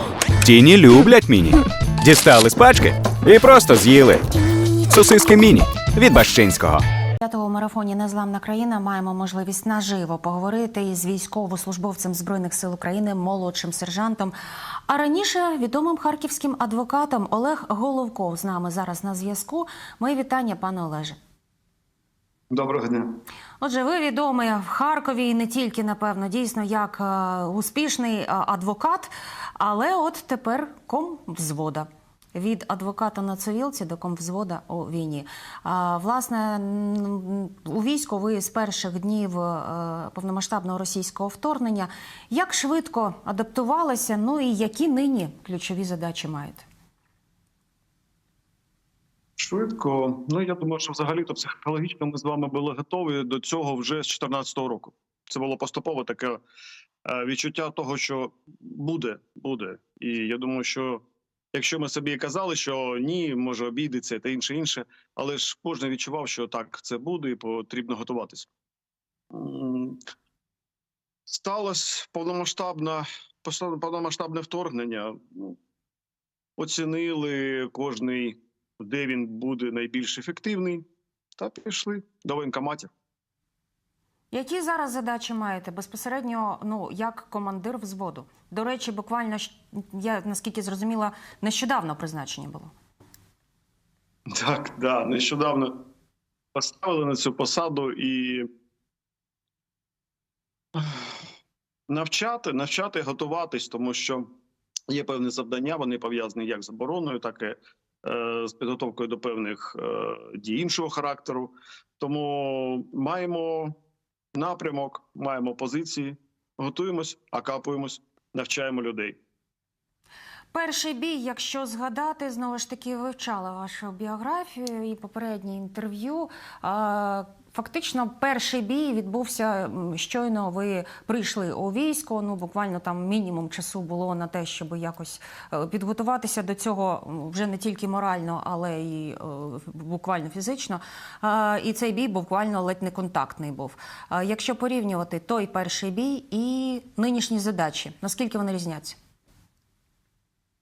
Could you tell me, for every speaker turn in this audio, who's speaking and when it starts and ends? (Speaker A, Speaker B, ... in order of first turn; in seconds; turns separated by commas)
Speaker A: 0.4-4.2, Speaker A: 4.9-6.8, Speaker B: 7.2-14.3, Speaker B: 14.9-21.1, Speaker C: 22.5-23.2, Speaker B: 23.6-46.6, Speaker C: 49.4-56.4, Speaker C: 57.0-68.5, Speaker C: 69.3-70.0, Speaker C: 71.3-75.5, Speaker C: 76.6-80.8, Speaker C: 81.4-82.9, Speaker B: 84.3-92.7, Speaker C: 94.3-95.8, Speaker C: 96.5-98.5, Speaker C: 100.7-101.2, Speaker C: 101.9-104.3, Speaker C: 104.9-113.7, Speaker C: 114.3-119.2, Speaker B: 120.5-149.0